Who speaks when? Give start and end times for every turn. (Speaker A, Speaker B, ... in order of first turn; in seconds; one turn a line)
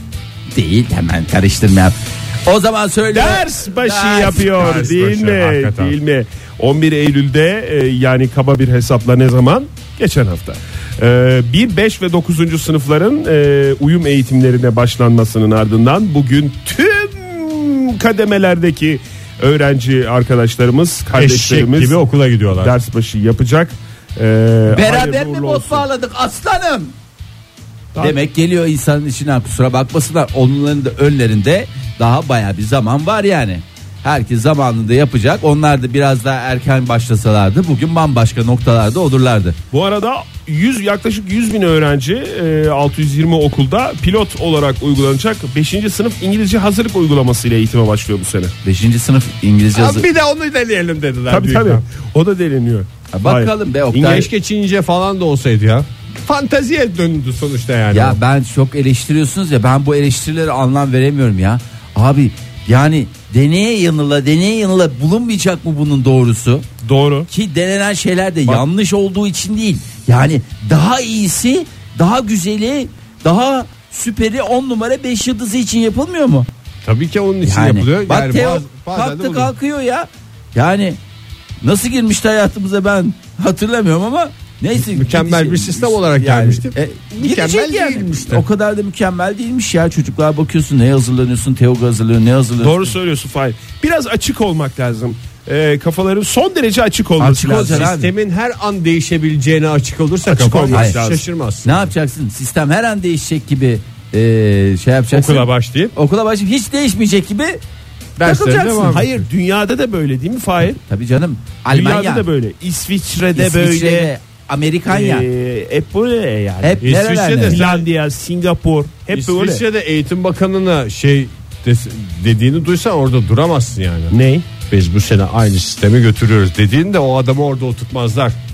Speaker A: 0.5-4.7
Speaker B: 3.1-22.0
Speaker C: 4.4-6.0
Speaker C: 21.2-22.8
Speaker B: 22.5-25.9
Speaker A: 24.7-26.9
Speaker A: 28.0-39.6
Speaker B: 39.7-48.5
Speaker A: 48.6-50.1
Speaker C: 49.7-51.8
Speaker B: 51.3-54.2
Speaker A: 53.1-54.3
Speaker C: 54.0-58.2
Speaker A: 57.9-66.7
Speaker B: 66.8-67.3
Speaker A: 67.3-76.5
Speaker C: 76.8-79.5
Speaker A: 77.4-81.0
Speaker A: 81.6-92.9
Speaker C: 84.8-88.5
Speaker B: 92.6-97.9
Speaker A: 97.2-98.1
Speaker C: 97.2-101.9
Speaker B: 100.3-101.2
Speaker A: 101.6-107.6
Speaker C: 105.1-105.9
Speaker C: 108.2-109.2
Speaker B: 108.2-110.8
Speaker A: 110.8-112.3
Speaker B: 111.7-114.1
Speaker A: 113.4-115.3
Speaker B: 114.9-116.9
Speaker A: 116.6-117.6
Speaker C: 116.8-117.9
Speaker B: 117.5-119.6
Speaker C: 119.1-128.4
Speaker B: 124.1-124.5